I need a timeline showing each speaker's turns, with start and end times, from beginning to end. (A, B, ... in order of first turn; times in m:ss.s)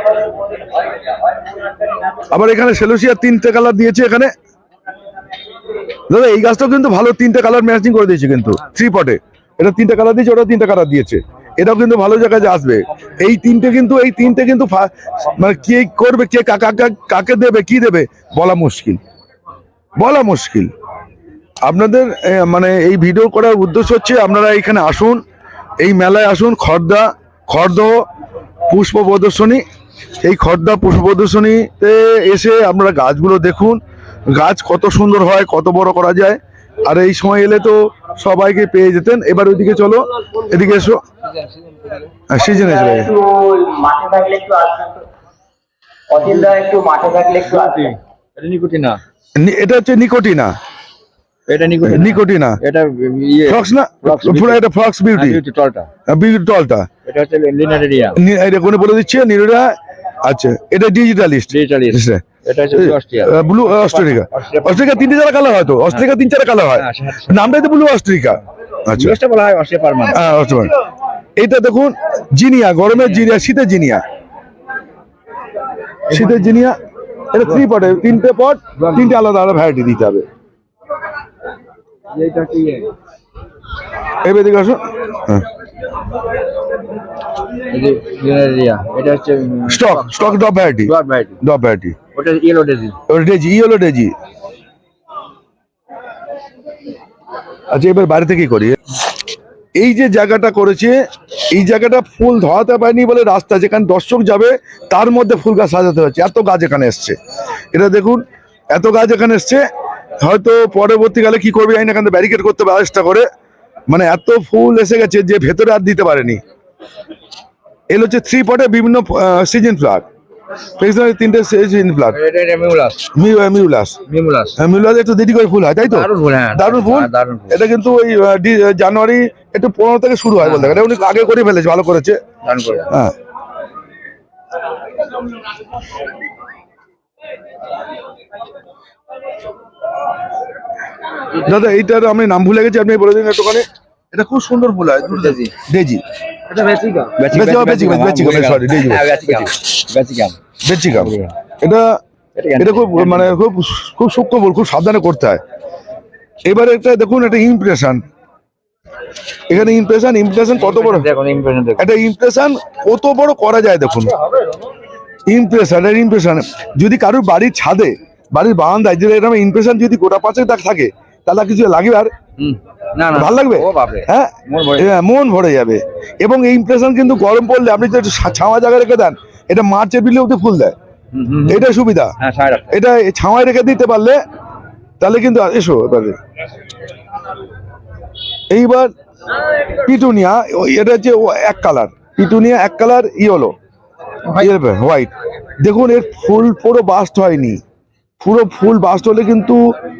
0:02.3-0:04.3 A
0:06.1-0:19.0 A
0:20.0-0:20.7 A
0:21.6-0:25.2 A
0:25.8-0:28.0 A
0:28.7-0:29.6 A
0:30.2-0:41.0 A
0:41.2-0:42.1 B
0:42.3-0:43.1 A
0:42.4-0:45.0 C
0:46.1-0:47.9 C
0:47.5-0:49.0 B
0:49.4-0:50.5 A
0:51.5-0:55.9 B
0:51.8-0:52.6 A
0:53.5-0:55.4 A
0:56.1-0:56.9 A
0:57.0-0:58.2 B
0:58.2-1:09.2 A
1:01.5-1:05.0 B
1:06.7-1:07.5 B
1:08.9-1:10.4 B
1:10.1-1:10.7 A
1:11.4-1:14.0 A
1:12.9-1:13.2 B
1:16.1-1:16.8 A
1:16.1-1:16.5 B
1:17.3-1:20.2 A
1:18.8-1:19.2 B
1:22.1-1:22.9 B
1:24.2-1:25.4 A
1:27.7-1:31.4 B
1:29.6-1:32.0 A
1:32.1-1:33.0 B
1:33.1-1:34.1 A
1:37.7-1:38.8 A
1:39.8-1:41.0 A
1:41.5-1:47.2 A
1:47.7-1:49.6 A
1:50.2-1:53.3 A
1:53.9-1:56.4 A
1:57.9-2:00.1 A
2:00.8-2:02.2 A
2:02.1-2:03.1 B
2:03.1-2:04.0 A
2:04.1-2:04.6 B
2:04.6-2:12.2 A
2:05.8-2:07.6 B
2:10.4-2:10.8 B
2:12.4-2:12.9 B
2:21.4-2:26.0 A
2:25.0-2:25.5 B
2:26.5-2:30.4 B
2:27.3-2:29.5 A
2:30.6-2:32.0 A
2:30.9-2:31.4 B
2:32.3-2:33.4 B
2:32.6-2:35.4 A
2:36.4-2:38.0 A
2:39.5-2:41.1 A
2:40.6-2:41.9 B
2:41.8-2:44.2 A
2:45.3-2:52.1 A
2:52.4-2:54.9 B
2:53.1-3:00.7 A
3:01.1-3:02.8 B
3:01.5-3:02.1 A
3:02.7-3:04.2 A
3:05.0-3:06.2 A
3:08.5-3:08.9 A
3:09.8-3:13.5 A
3:14.3-3:17.6 A
3:18.2-3:19.6 A